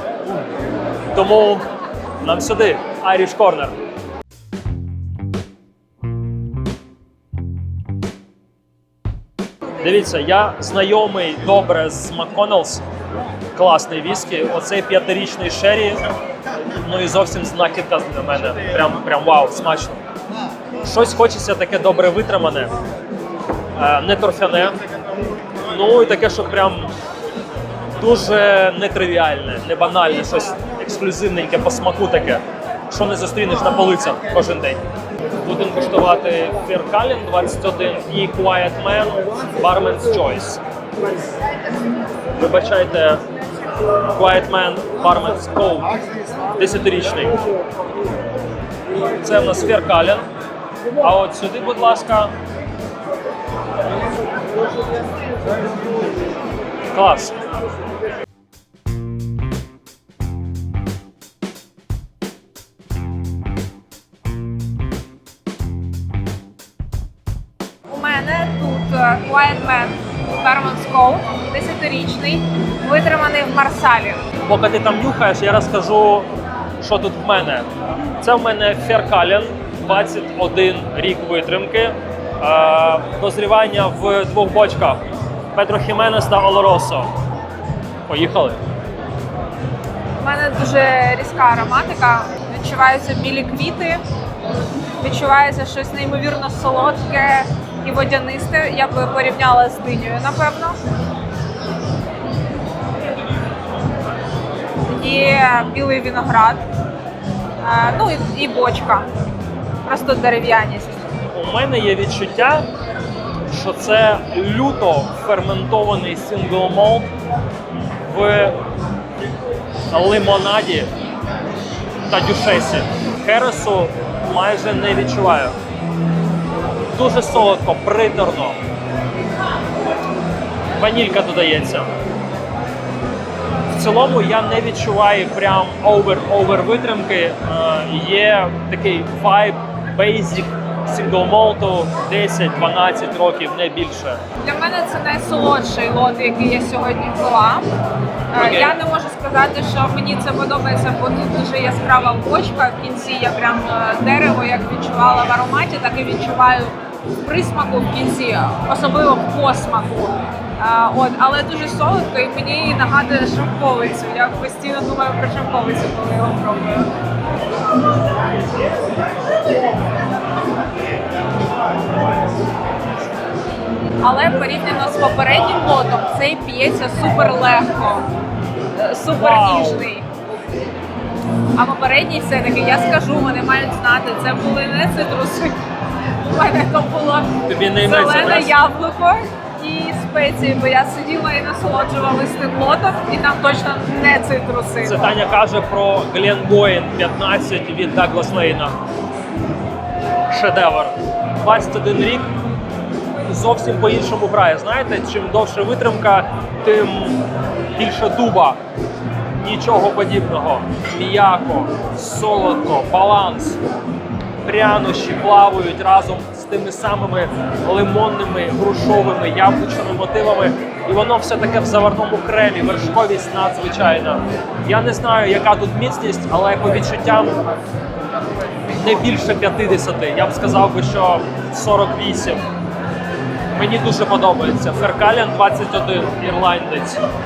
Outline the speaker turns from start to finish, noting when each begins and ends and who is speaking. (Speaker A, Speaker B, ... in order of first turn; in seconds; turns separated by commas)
Speaker A: 1.1-1.6, Speaker A: 2.2-3.8, Speaker A: 9.8-12.8, Speaker A: 13.5-16.0, Speaker A: 16.8-20.1, Speaker A: 20.8-22.7, Speaker A: 23.8-24.8, Speaker A: 25.7-26.9, Speaker A: 28.0-34.8, Speaker A: 35.4-40.6, Speaker A: 42.4-43.2, Speaker A: 44.1-45.9, Speaker A: 46.6-47.3, Speaker A: 49.2-50.3, Speaker A: 51.0-52.3, Speaker A: 56.9-57.4, Speaker B: 67.9-74.2, Speaker A: 74.5-77.7, Speaker A: 78.2-85.0, Speaker A: 85.5-87.1, Speaker A: 88.1-88.6, Speaker B: 90.2-94.0, Speaker B: 95.0-100.8, Speaker B: 104.8-106.7, Speaker B: 107.6-109.1, Speaker B: 109.8-111.1, Speaker A: 111.3-112.7, Speaker A: 113.5-117.1, Speaker A: 118.0-118.6, Speaker A: 119.9-120.9, Speaker A: 122.1-125.6, Speaker A: 126.9-128.6, Speaker A: 130.8-131.9, Speaker A: 133.7-144.2, Speaker B: 144.4-147.7, Speaker B: 148.3-166.9, Speaker A: 148.4-148.8, Speaker B: 174.0-178.1, Speaker B: 178.8-180.1, Speaker A: 179.2-179.8, Speaker B: 181.6-195.2, Speaker A: 187.5-188.6, Speaker A: 194.8-198.8, Speaker A: 200.3-202.3, Speaker A: 203.2-207.2, Speaker A: 207.8-208.6, Speaker A: 209.3-213.6, Speaker A: 214.4-227.4, Speaker A: 228.8-232.4, Speaker A: 233.5-237.0